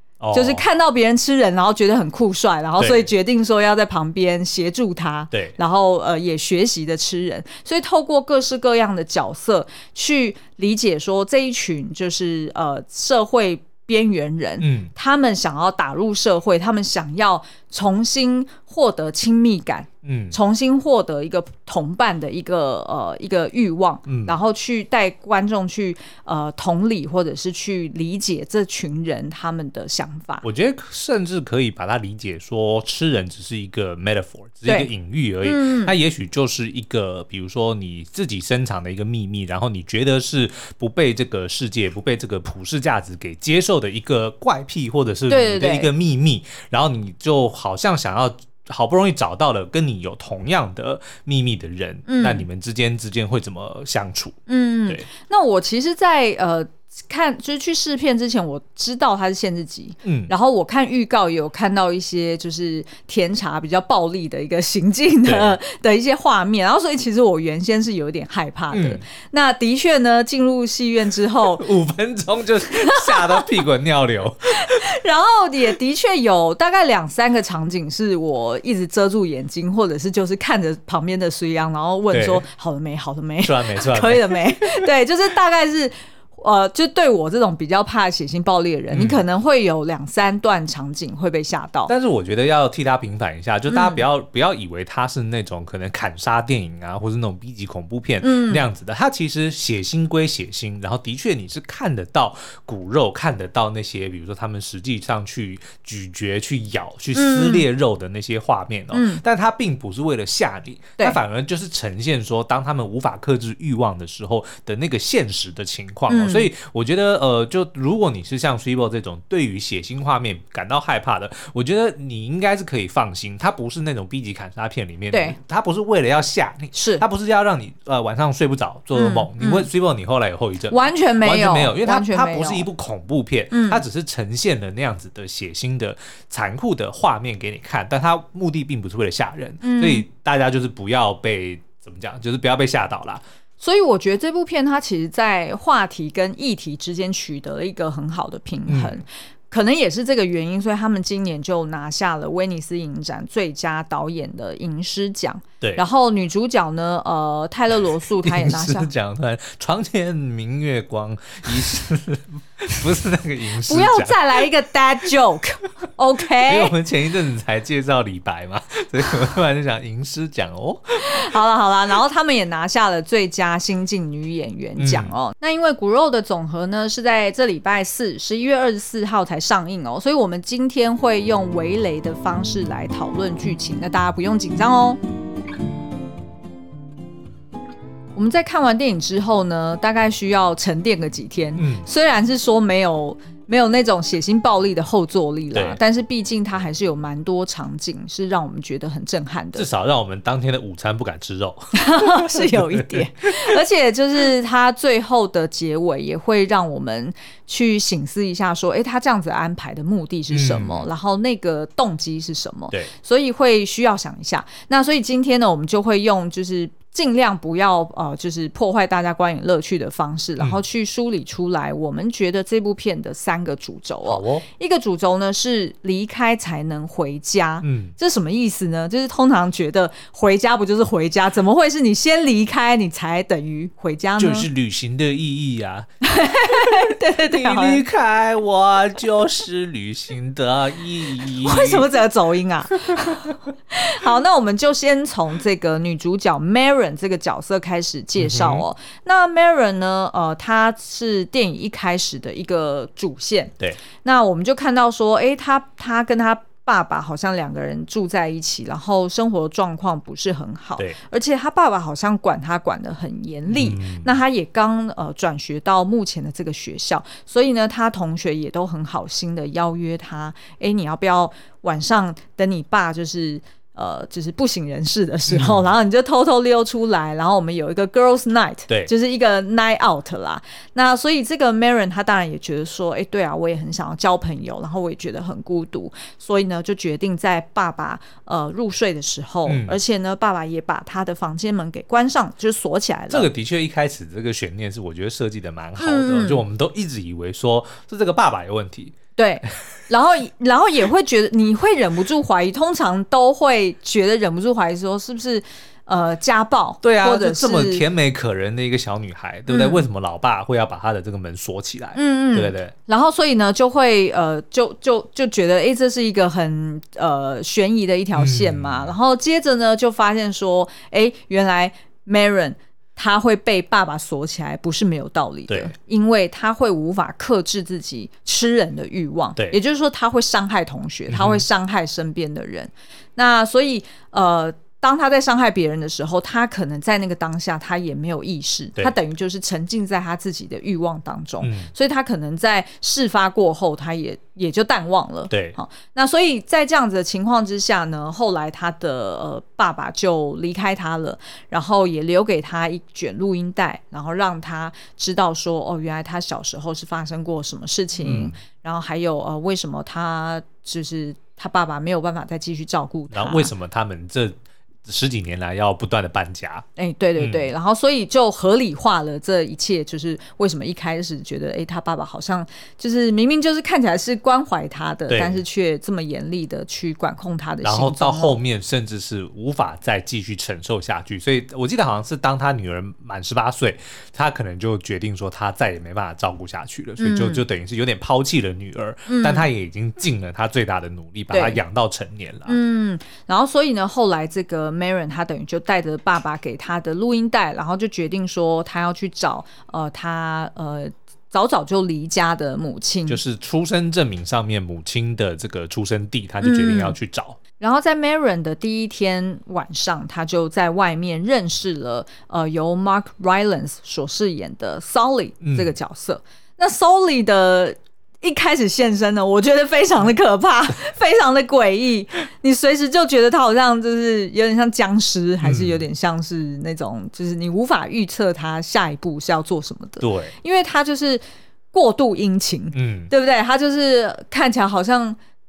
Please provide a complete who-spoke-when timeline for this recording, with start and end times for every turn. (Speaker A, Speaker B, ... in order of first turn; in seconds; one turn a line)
Speaker A: 0.2-0.7
Speaker B: 0.3-30.4
Speaker A: 2.8-3.1
Speaker A: 14.6-14.9
Speaker A: 20.1-20.4
Speaker A: 24.1-24.4
Speaker A: 30.4-55.1
Speaker B: 35.4-35.9
Speaker B: 45.3-45.9
Speaker B: 52.1-52.5
Speaker B: 54.5-71.6
Speaker A: 60.0-60.3
Speaker A: 65.2-65.6
Speaker A: 68.7-69.0
Speaker A: 71.6-74.8
Speaker B: 72.8-73.6
Speaker B: 74.6-91.9
Speaker A: 82.1-82.4
Speaker A: 83.4-84.8
Speaker A: 88.9-89.2
Speaker A: 91.9-143.2
Speaker B: 93.7-94.0
Speaker B: 98.2-98.6
Speaker B: 107.2-107.7
Speaker B: 108.9-109.2
Speaker B: 116.1-116.5
Speaker B: 125.1-125.4
Speaker B: 126.7-127.0
Speaker B: 128.9-129.7
Speaker B: 130.7-132.7
Speaker B: 133.5-133.8
Speaker B: 139.6-140.1
Speaker B: 143.6-158.9
Speaker A: 148.7-149.0
Speaker A: 158.2-164.3
Speaker B: 163.6-166.7
Speaker A: 166.4-171.2
Speaker B: 171.0-185.0
Speaker A: 174.8-175.1
Speaker B: 188.2-199.7
Speaker A: 191.6-191.9
Speaker A: 195.5-195.8
Speaker A: 199.6-203.5
Speaker B: 201.7-234.5
Speaker A: 210.3-210.9
Speaker A: 224.1-224.4
Speaker A: 227.6-228.0
Speaker A: 234.2-235.9
Speaker B: 236.0-237.8
Speaker A: 236.5-241.9
Speaker B: 241.2-293.3
Speaker A: 248.2-248.6
Speaker A: 263.5-264.2
Speaker A: 275.3-275.7
Speaker A: 289.5-289.8
Speaker A: 293.1-299.0
Speaker B: 295.8-296.4
Speaker B: 299.2-307.8
Speaker A: 306.8-312.7
Speaker B: 309.5-309.9
Speaker B: 311.9-363.5
Speaker A: 318.2-318.9
Speaker A: 331.1-331.4
Speaker A: 341.4-341.7
Speaker A: 345.3-345.6
Speaker A: 358.0-358.4
Speaker A: 363.1-366.7
Speaker B: 366.8-378.4
Speaker A: 367.2-367.5
Speaker A: 375.1-375.4
Speaker A: 377.6-392.6
Speaker B: 387.0-387.4
Speaker B: 389.1-389.5
Speaker B: 391.3-391.6
Speaker B: 392.5-403.2
Speaker A: 403.1-407.4
Speaker B: 406.4-407.0
Speaker B: 407.6-435.2
Speaker A: 415.4-415.8
Speaker A: 425.4-425.9
Speaker A: 430.0-430.4
Speaker A: 432.7-433.1